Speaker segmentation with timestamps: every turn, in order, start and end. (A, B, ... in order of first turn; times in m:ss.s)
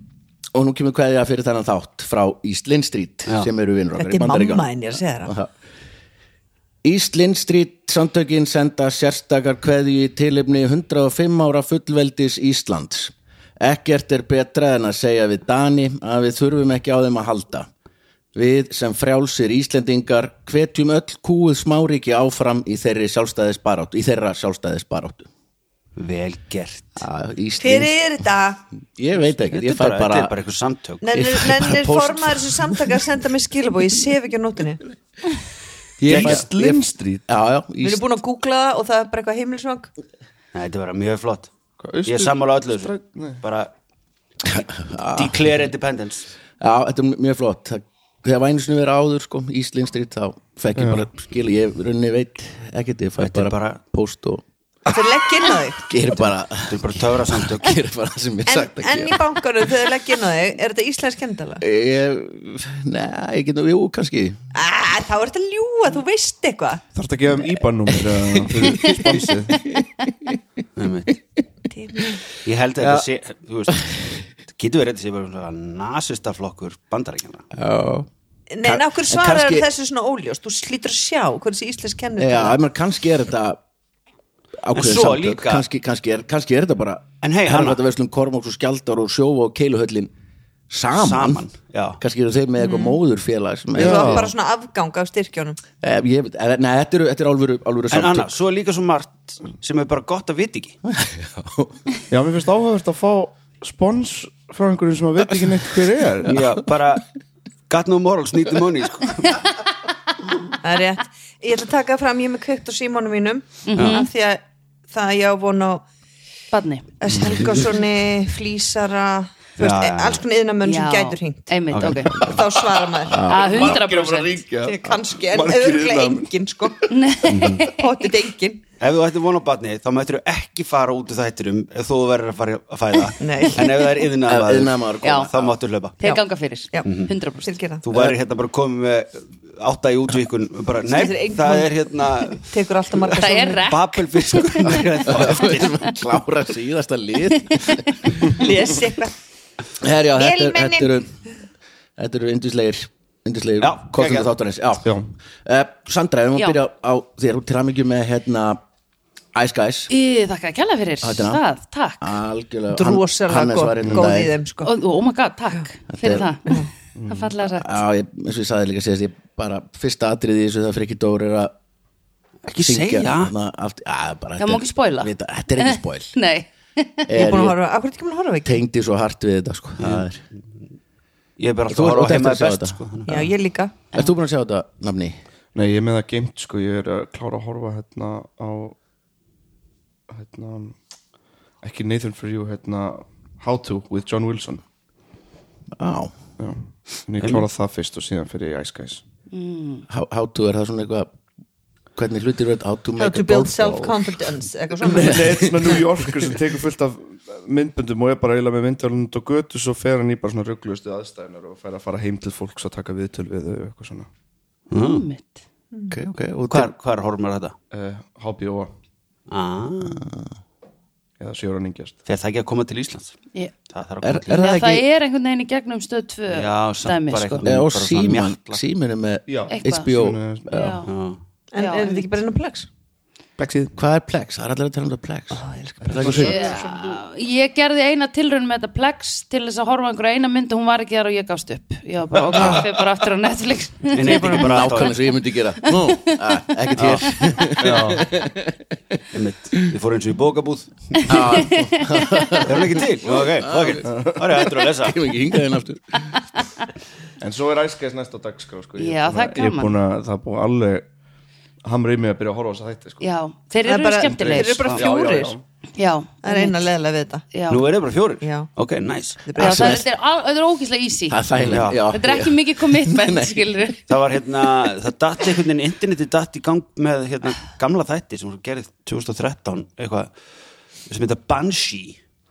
0:00.5-0:05.5 A
0:04.0-0:05.3 B
0:06.8-0:17.7 A
0:18.3-0:25.3 A
0:26.0-0:27.0 C
0:27.0-0:28.2 A
0:27.6-0:28.6 B
0:28.9-0:30.3 A
0:29.4-0:31.0 C
0:31.0-0:34.8 B
0:31.1-0:33.0 A
0:36.0-0:38.0 A
0:36.0-0:37.2 D
0:36.1-0:36.4 C
0:37.8-0:39.9 B
0:40.5-0:41.5 C
0:41.8-0:43.4 D
0:42.0-0:43.7 C
0:44.4-0:45.6 A
0:45.1-0:46.3 C
0:46.6-0:54.4 A
0:50.8-0:51.1 D
0:53.2-0:53.8 C
0:54.9-0:55.9 B
0:55.8-0:59.7 A
0:56.7-0:57.8 C
0:58.5-1:01.6 B
1:01.6-1:04.4 A
1:04.6-1:06.8 B
1:06.9-1:09.7 D
1:07.9-1:10.4 A
1:10.8-1:11.2 C
1:11.7-1:12.2 B
1:12.4-1:17.5 C
1:12.8-1:13.0 A
1:13.7-1:14.0 A
1:17.5-1:18.1 A
1:18.5-1:22.6 B
1:18.6-1:19.7 A
1:22.2-1:23.6 A
1:24.6-1:30.1 A
1:24.7-1:25.6 C
1:27.2-1:27.8 C
1:30.7-1:31.4 A
1:30.9-1:32.0 C
1:32.0-1:34.3 A
1:32.6-1:33.0 B
1:33.7-1:35.6 B
1:33.8-1:34.3 D
1:35.8-1:38.4 A
1:37.9-1:40.8 C
1:40.8-1:41.8 A
1:42.1-1:46.4 D
1:46.3-1:47.0 C
1:47.7-1:49.4 C
1:50.6-1:55.8 B
1:53.7-1:54.1 E
1:53.8-1:54.0 C
1:56.5-1:56.9 E
1:57.0-2:01.5 B
1:57.3-1:57.7 C
1:59.6-2:00.2 C
2:00.6-2:02.2 E
2:01.7-2:02.4 A
2:02.1-2:03.8 B
2:03.0-2:03.6 A
2:03.2-2:04.4 E
2:03.4-2:06.3 D
2:04.6-2:06.9 B
2:06.9-2:08.1 E
2:07.6-2:08.6 B
2:08.8-2:16.0 C
2:13.2-2:13.8 B
2:14.2-2:15.5 A
2:15.0-2:15.3 E
2:16.0-2:17.6 E
2:16.0-2:16.9 B
2:16.8-2:17.1 C
2:17.4-2:17.8 B
2:17.8-2:22.5 C
2:20.9-2:21.7 B
2:22.2-2:23.8 B
2:23.2-2:25.1 E
2:23.6-2:25.8 C
2:25.1-2:28.0 A
2:27.4-2:28.1 E
2:28.3-2:29.2 B
2:29.8-2:31.1 A
2:30.2-2:31.0 B
2:32.0-2:34.9 A
2:33.6-2:34.3 C
2:34.8-2:35.1 D
2:35.4-2:38.6 A
2:39.3-2:39.9 A
2:39.9-2:42.1 E
2:41.0-2:41.4 A
2:42.0-2:44.3 A
2:42.7-2:44.7 B
2:44.6-2:47.8 E
2:45.9-2:46.3 A
2:47.0-2:47.3 D
2:47.6-2:51.5 A
2:52.5-2:53.3 C
2:52.6-2:56.1 A
2:54.4-2:57.1 E
2:57.1-2:57.6 A
2:57.1-2:58.6 B
2:58.4-3:00.2 A
2:59.8-3:00.1 C
3:01.4-3:03.3 C
3:01.7-3:03.2 A
3:03.1-3:03.7 B
3:03.9-3:05.2 A
3:05.5-3:08.8 D
3:10.1-3:10.8 D
3:11.6-3:14.6 D
3:15.7-3:16.1 A
3:16.4-3:19.0 D
3:17.2-3:17.4 C
3:19.3-3:19.8 E
3:19.9-3:21.1 A
3:22.0-3:24.2 A
3:23.0-3:25.6 B
3:24.9-3:34.1 D
3:24.9-3:26.3 A
3:34.7-3:35.0 C
3:34.7-3:35.4 E
3:35.9-3:36.7 A
3:36.5-3:37.5 C
3:37.7-3:38.7 D
3:39.3-3:40.0 C
3:39.8-3:40.3 A
3:41.2-3:42.0 D
3:42.0-3:43.2 C
3:43.7-3:44.4 C
3:44.0-3:44.8 A
3:44.3-3:47.5 E
3:46.3-3:48.6 C
3:47.4-3:50.8 A
3:49.3-3:50.6 D
3:49.5-3:49.9 E
3:50.5-3:50.9 E
3:50.8-3:51.2 C
3:51.5-3:52.7 B
3:51.6-3:52.2 E
3:53.4-3:53.7 D
3:53.7-3:56.4 A
3:55.3-3:57.0 B
3:55.9-3:56.3 D
3:56.0-4:04.4 E
4:02.3-4:02.7 A
4:03.9-4:05.0 C
4:04.1-4:08.7 A
4:05.9-4:06.1 E
4:06.8-4:07.7 C
4:07.6-4:08.1 D
4:09.1-4:11.2 C
4:11.1-4:16.0 A
4:11.1-4:12.4 E
4:12.4-4:15.0 C
4:13.9-4:14.2 D
4:17.2-4:20.9 D
4:18.8-4:19.7 E
4:21.6-4:23.0 D
4:23.0-4:24.7 E
4:23.6-4:25.3 B
4:24.4-4:24.8 C
4:24.7-4:25.4 D
4:25.8-4:26.6 E
4:26.2-4:27.2 B
4:27.3-4:27.6 E
4:27.5-4:29.2 C
4:28.2-4:28.5 B
4:29.2-4:29.8 B
4:29.4-4:29.8 A
4:29.4-4:33.8 E
4:31.1-4:33.7 A
4:31.5-4:31.8 C
4:33.9-4:40.1 C
4:40.9-4:42.0 C